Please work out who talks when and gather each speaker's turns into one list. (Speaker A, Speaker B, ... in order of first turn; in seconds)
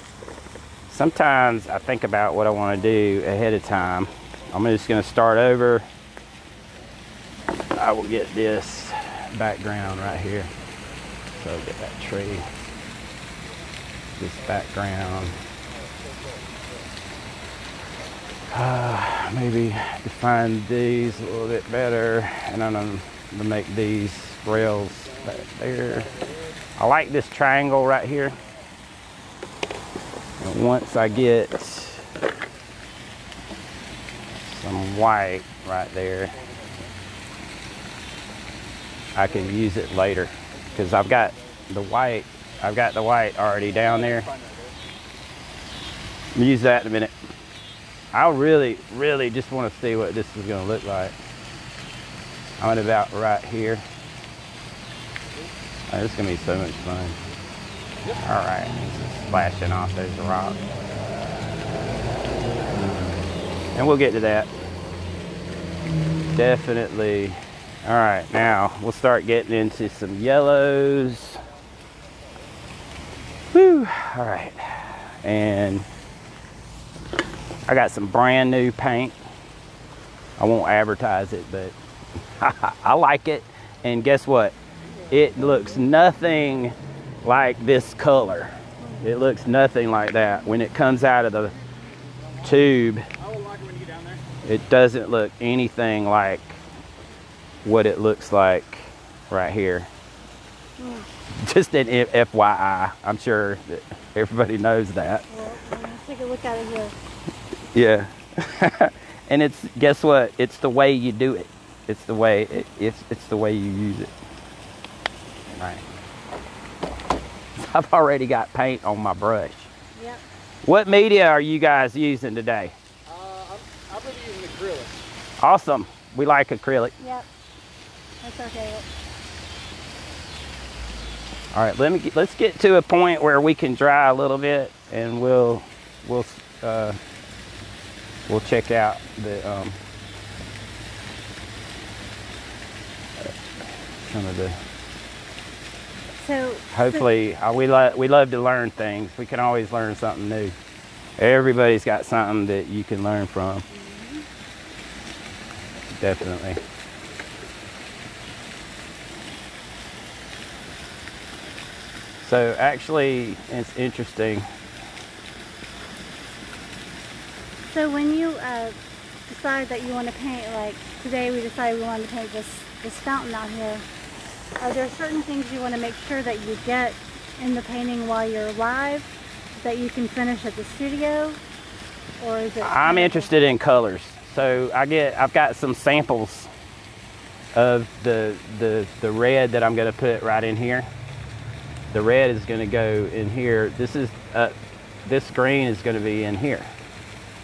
Speaker A: 0.9-5.8, 7.7-10.5, 11.4-12.5, 14.2-15.4, 18.5-26.1, 26.8-28.4, 30.4-32.1, 34.4-36.3, 39.1-44.3, 46.3-47.1, 48.1-51.1, 52.6-53.8, 55.9-57.2, 58.2-60.6, 63.7-64.5, 66.3-71.4, 73.5-75.8, 77.7-79.2, 80.4-81.7, 82.3-84.5, 85.1-91.5, 92.4-93.1, 94.4-96.5, 97.6-99.9, 101.3-105.2, 107.7-114.1, 115.5-115.8, 117.5-119.7, 120.6-122.7, 125.4-126.9, 131.5-137.0, 138.3-139.8, 144.0-144.6, 146.7-150.5, 151.2-153.6, 156.0-156.6, 162.2-164.4, 182.6-186.5, 187.5-190.9, 191.9-194.5, 195.1-196.7
Speaker B: 15.7-16.4, 36.3-36.8, 40.5-41.6, 43.7-44.8, 93.2-94.2, 123.1-125.0
Speaker C: 100.8-101.1, 105.3-106.9, 120.0-120.2, 127.0-127.2, 128.2-128.8, 146.2-147.0, 153.7-154.2, 167.7-168.8, 169.3-173.8, 174.6-181.4, 182.2-183.3